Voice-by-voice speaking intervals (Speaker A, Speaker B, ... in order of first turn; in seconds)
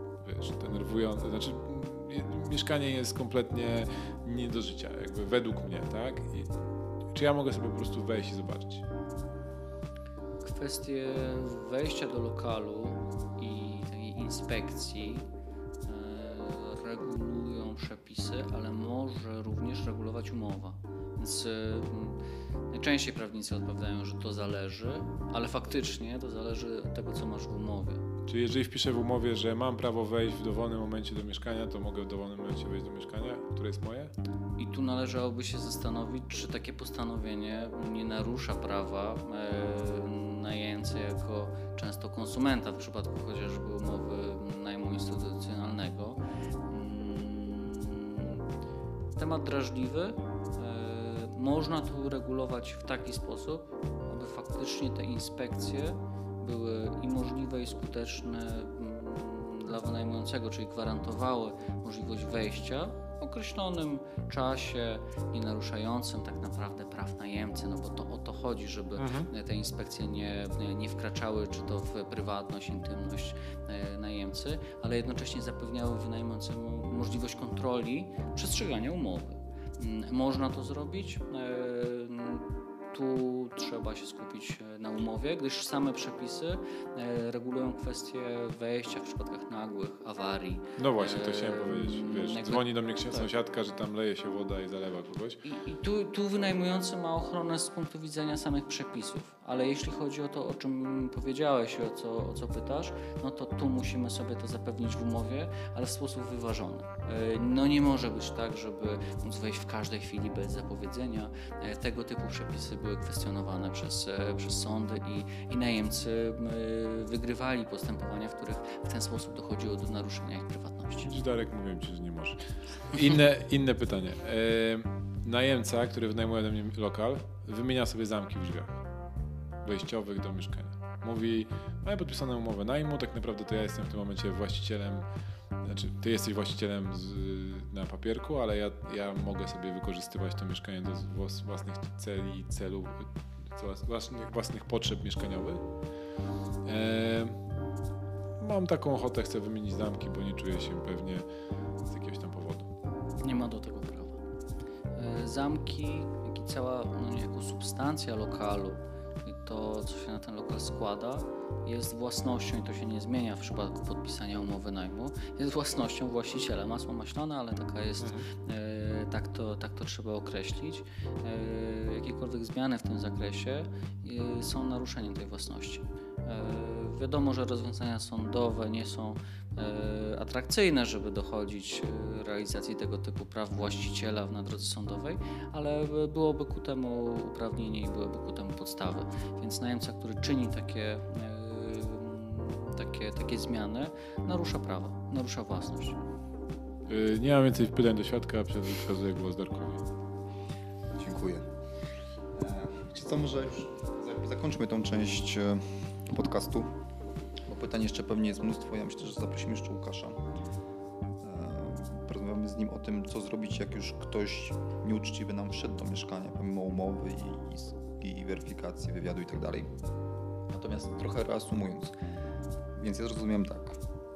Speaker A: 0.2-6.5, 7.1-8.8, 28.3-34.1, 69.0-69.3, 90.8-95.4, 121.0-128.8, 129.6-135.1, 135.6-145.6, 146.7-147.4, 148.4-151.2, 151.9-152.7, 168.0-168.3, 196.9-199.8
Speaker B: 10.4-15.2, 15.8-28.1, 34.6-48.4, 49.2-93.3, 95.4-121.1, 153.2-154.2, 155.0-196.0
Speaker C: 201.0-201.5, 202.3-206.7, 207.5-210.2, 211.2-219.7, 220.5-221.9, 222.8-223.8